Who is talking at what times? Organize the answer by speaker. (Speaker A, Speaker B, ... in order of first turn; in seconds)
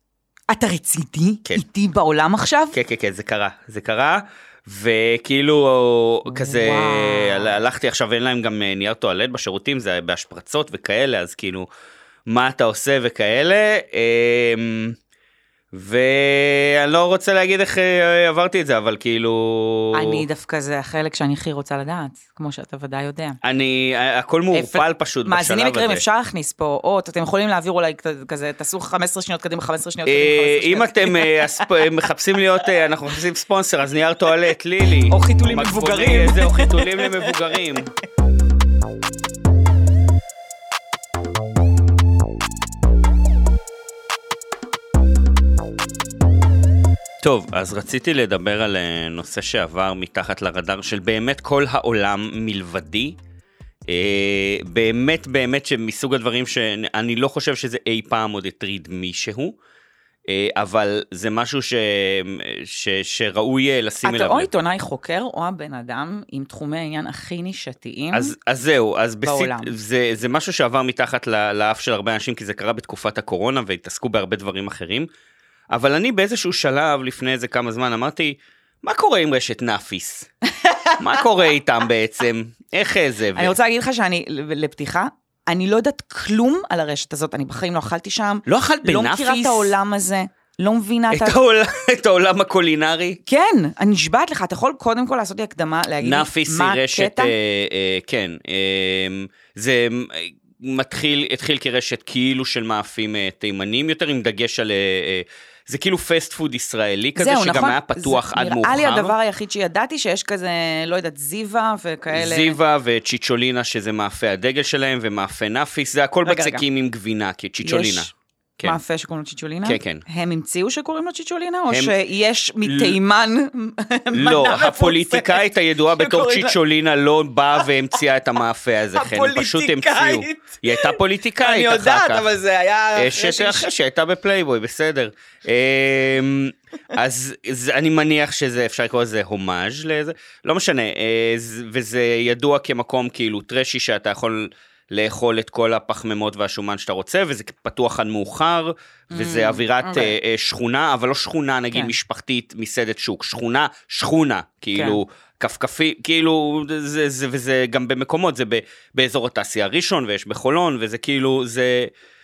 Speaker A: 0.5-2.8, 6.3-7.5, 19.9-23.4, 24.5-31.7, 35.0-37.6, 64.0-68.3, 69.2-69.7, 80.6-80.9, 83.3-91.3, 93.2-97.3, 107.2-112.6, 116.2-116.6, 117.6-118.1, 118.6-126.6, 128.9-133.7, 149.1-150.1, 154.7-155.0
Speaker B: 2.7-11.7, 12.3-15.0, 15.7-20.2, 23.4-26.0, 30.1-37.9, 47.2-53.2, 53.9-59.6, 60.3-64.5, 68.1-75.1, 75.7-80.3, 81.0-83.5, 88.5-89.7, 91.1-93.2, 96.0-109.1, 112.1-118.8, 119.6-120.0, 121.7-121.9, 122.6-123.0, 124.1-132.3, 132.9-161.9